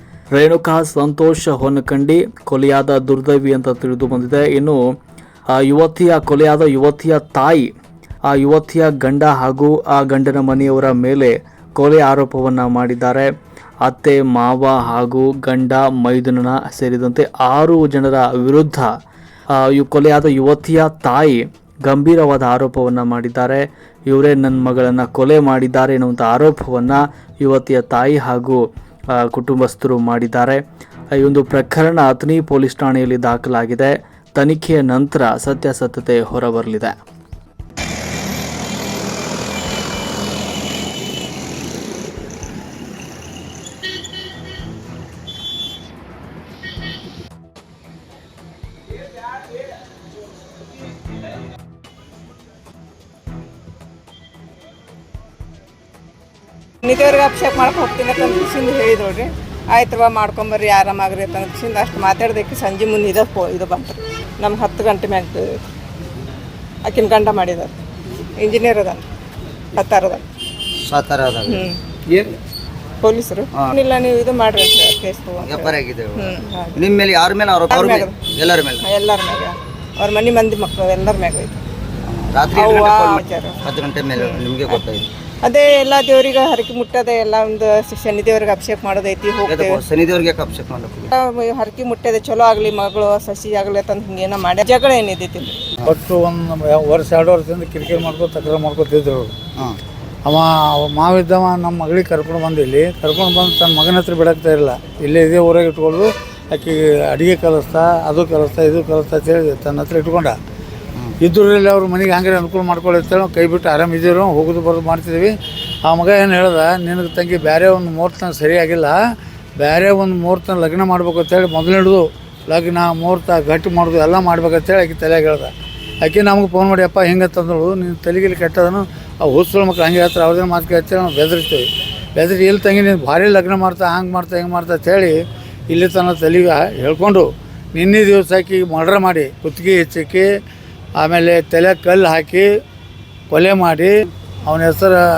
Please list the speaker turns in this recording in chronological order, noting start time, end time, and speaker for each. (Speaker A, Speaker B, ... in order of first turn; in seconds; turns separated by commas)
Speaker A: 0.3-4.8, Speaker A: 5.5-7.7, Speaker A: 8.2-13.3, Speaker A: 13.8-18.9, Speaker A: 19.5-30.6, Speaker A: 31.1-37.0, Speaker B: 56.8-65.6, Speaker B: 66.8-67.8, Speaker B: 68.4-69.1, Speaker B: 69.7-70.3, Speaker C: 70.8-72.3, Speaker B: 71.5-71.8, Speaker B: 73.0-76.8, Speaker C: 75.4-78.8, Speaker B: 77.7-78.1, Speaker B: 78.8-81.6, Speaker C: 82.0-85.1, Speaker B: 82.5-83.6, Speaker B: 84.2-84.8, Speaker B: 85.4-89.8, Speaker C: 89.5-91.1, Speaker B: 91.1-95.6, Speaker D: 95.8-99.3, Speaker D: 100.2-110.3, Speaker D: 111.2-119.0, Speaker D: 119.6-140.3, Speaker D: 141.0-142.5, Speaker D: 143.3-145.0